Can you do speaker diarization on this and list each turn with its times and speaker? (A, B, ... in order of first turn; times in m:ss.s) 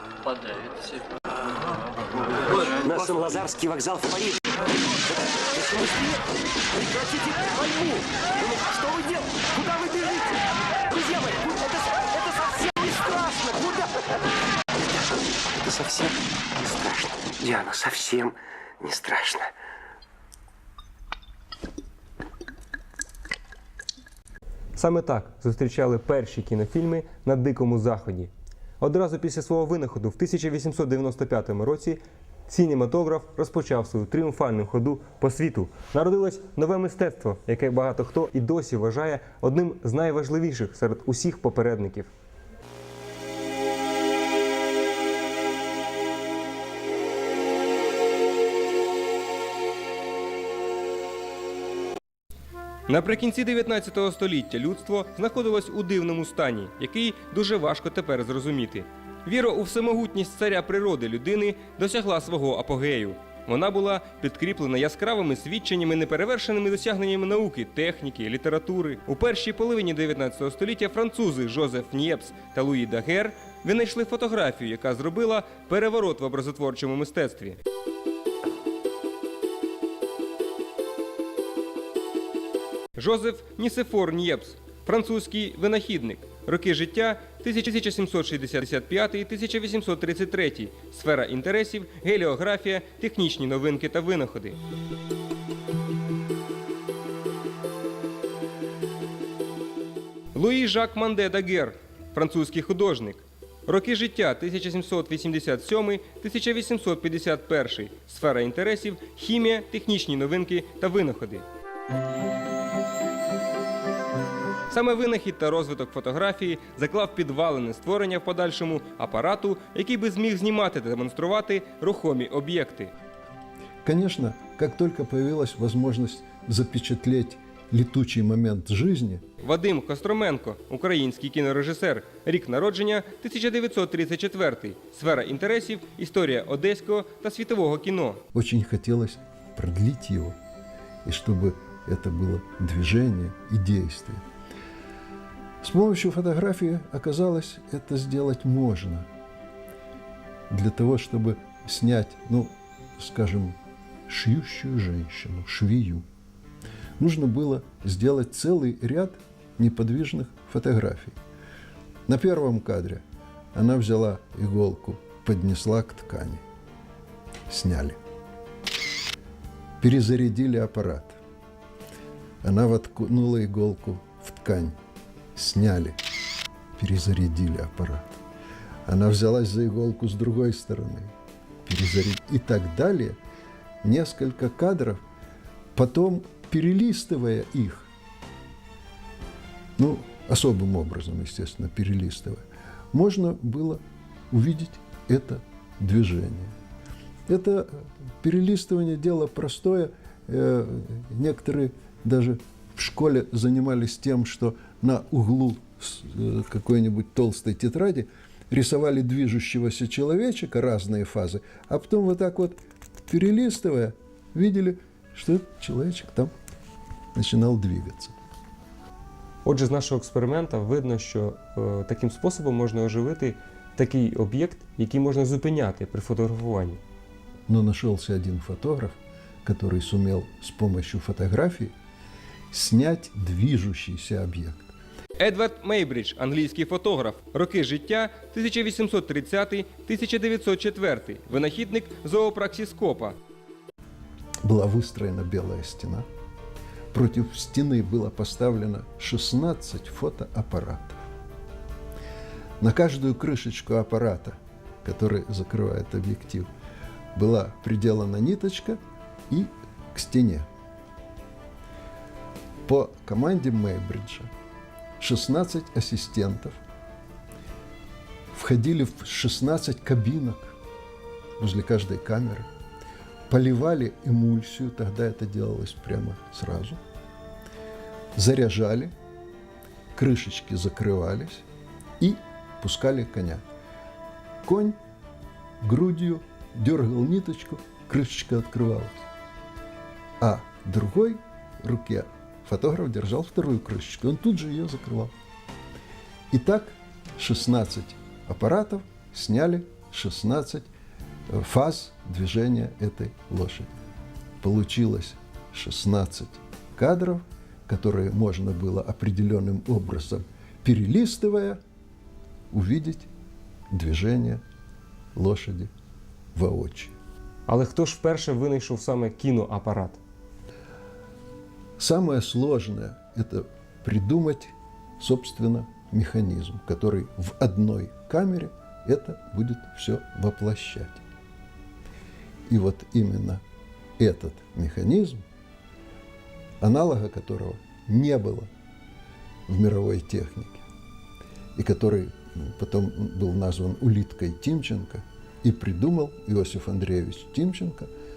0:02.8-0:04.4 A
0:05.5-0:06.2 A
0:06.8-0:10.4 A
0:10.9-0:13.9 A
0:15.7-0:18.0 A
0:17.9-0:18.3 B
0:18.8-0:19.2 A
0:19.0-0:19.4 B
0:24.8-0:42.1 B
0:52.9-1:17.6 B
1:23.0-1:34.6 B
1:40.3-1:51.4 B
1:54.7-2:02.9 B
2:03.8-2:09.2 C
2:09.4-2:18.2 B
2:18.3-2:20.4 C
2:21.0-2:24.2 C
2:25.6-2:29.1 C
2:30.5-2:33.6 C
2:34.1-2:36.0 C
2:37.0-2:41.2 C
2:42.1-2:43.0 C
2:43.5-2:46.4 C
2:47.5-2:48.0 C
2:49.8-2:51.2 C
2:52.4-2:54.8 C
2:55.4-2:56.0 C
2:56.8-2:58.2 C
2:58.9-3:01.1 C
3:01.7-3:03.2 C
3:03.8-3:05.0 C
3:05.8-3:07.9 C
3:09.8-3:12.4 C
3:12.9-3:16.5 C
3:17.3-3:32.6 C
3:33.1-3:36.3 C
3:37.2-3:38.1 C
3:39.4-3:46.8 B
3:47.5-3:51.7 C
3:52.5-3:54.7 C
3:55.2-4:03.2 B
4:04.4-4:06.1 C
4:06.9-4:11.0 C
4:12.6-4:16.5 C
4:17.2-4:18.8 C
4:19.3-4:20.5 C
4:22.7-4:24.3 C
4:25.0-4:26.6 C
4:28.3-4:30.6 C
4:31.4-4:32.5 C
4:33.3-4:36.8 C
4:38.2-4:38.9 C
4:40.0-4:41.4 C
4:42.0-4:43.4 C
4:44.4-4:44.8 C
4:45.6-4:49.1 C
4:50.2-4:55.1 C
4:56.3-5:00.7 C
5:01.3-5:03.7 C
5:04.4-5:11.6 C
5:12.5-5:13.1 C
5:13.7-5:14.4 C
5:15.2-5:15.7 C
5:16.4-5:17.0 C
5:17.5-5:20.0 B
5:21.8-5:31.0 C
5:32.5-5:33.4 C
5:34.0-5:35.2 C
5:36.6-5:38.5 C
5:39.5-5:40.6 C
5:41.6-5:47.9 C